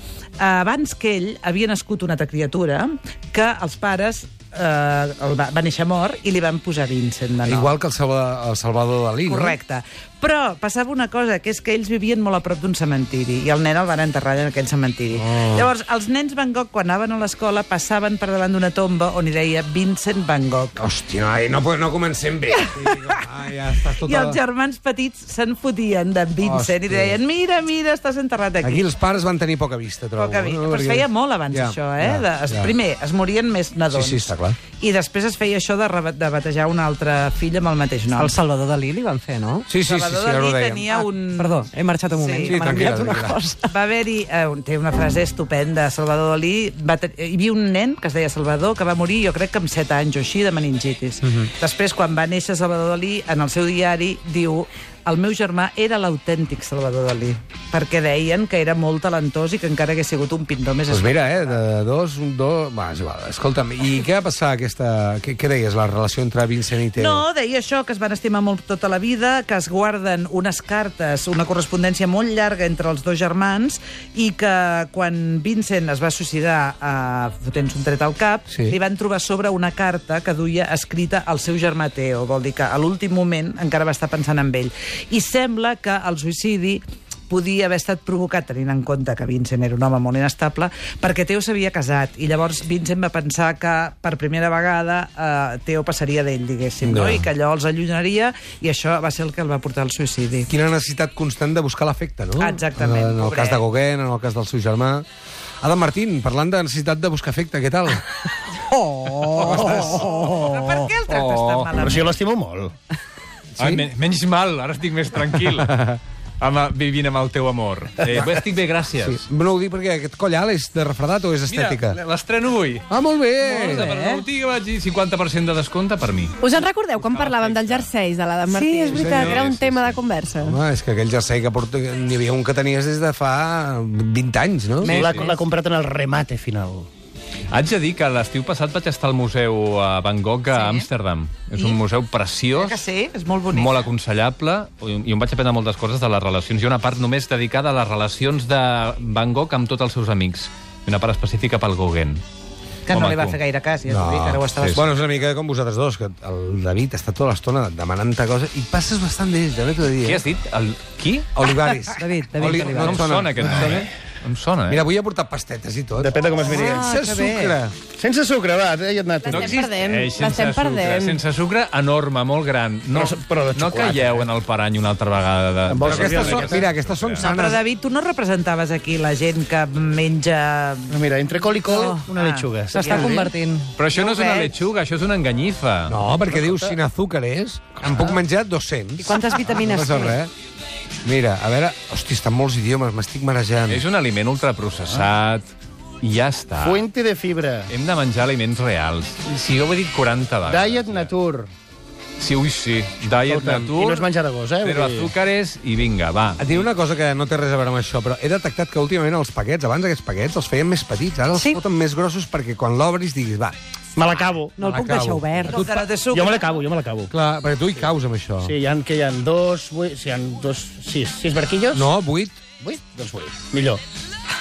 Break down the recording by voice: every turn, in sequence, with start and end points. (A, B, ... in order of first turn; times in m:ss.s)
0:00.4-0:07.7 A
0:07.4-0:09.6 B
0:09.2-0:20.8 A
0:15.1-0:15.7 B
0:20.8-0:24.4 B
0:22.6-0:23.2 A
0:24.0-0:28.8 A
0:26.4-0:27.2 B
0:28.6-0:32.7 B
0:30.2-0:38.3 A
0:33.9-0:34.6 B
0:38.2-0:39.7 C
0:39.7-0:40.8 B
0:39.8-1:01.6 A
0:41.0-0:43.7 C
0:42.4-0:43.4 B
1:00.9-1:07.2 B
1:06.9-1:40.5 A
1:36.8-1:37.3 B
1:40.5-1:45.0 B
1:42.4-1:43.6 A
1:45.6-1:48.1 B
1:48.6-1:49.6 C
1:49.2-1:50.3 B
1:49.6-1:50.6 D
1:49.6-1:52.2 A
1:51.1-1:51.7 E
1:51.8-1:52.7 D
1:53.6-1:53.8 B
1:53.6-1:55.7 E
1:55.6-1:56.0 B
1:56.4-1:59.2 E
1:58.0-1:58.4 B
1:59.0-2:02.0 B
2:01.5-2:02.8 E
2:02.9-2:03.9 B
2:03.4-2:06.4 E
2:06.4-2:10.6 F
2:06.9-2:07.9 E
2:08.5-2:09.0 C
2:08.9-2:09.9 B
2:09.0-2:10.0 E
2:10.4-2:14.9 B
2:14.8-2:15.4 C
2:14.9-2:16.9 D
2:17.5-2:22.8 E
2:21.5-2:21.8 A
2:22.5-2:23.8 A
2:23.5-2:32.2 E
2:32.8-2:34.9 A
2:32.9-2:33.4 E
2:33.9-2:40.2 B
2:40.0-2:41.3 E
2:41.3-2:43.8 B
2:42.0-2:43.2 C
2:42.4-2:44.8 E
2:44.7-2:46.1 B
2:46.0-2:46.9 D
2:46.4-2:47.6 C
2:46.7-2:47.7 B
2:47.8-2:49.6 D
2:49.3-2:57.2 E
2:49.3-2:51.2 F
2:52.9-2:54.3 D
2:55.6-2:56.7 D
2:55.8-2:57.6 B
2:57.2-3:01.0 A
3:00.9-3:03.3 D
3:01.6-3:03.2 A
3:02.7-3:03.7 C
3:03.8-3:06.0 E
3:03.9-3:04.5 A
3:05.9-3:10.3 B
3:06.1-3:06.7 D
3:09.0-3:10.2 C
3:11.0-3:13.8 B
3:13.7-3:16.8 E
3:16.6-3:17.7 D
3:17.7-3:21.1 E
3:20.4-3:21.5 D
3:22.2-3:26.6 E
3:23.2-3:25.1 D
3:26.4-3:33.6 B
3:31.3-3:31.6 C
3:34.0-3:34.5 D
3:34.6-3:35.6 C
3:34.6-3:35.8 B
3:35.4-3:36.5 A
3:36.1-3:37.1 D
3:37.1-3:38.5 B
3:38.4-3:41.9 D
3:41.7-3:42.4 B
3:42.6-3:43.8 D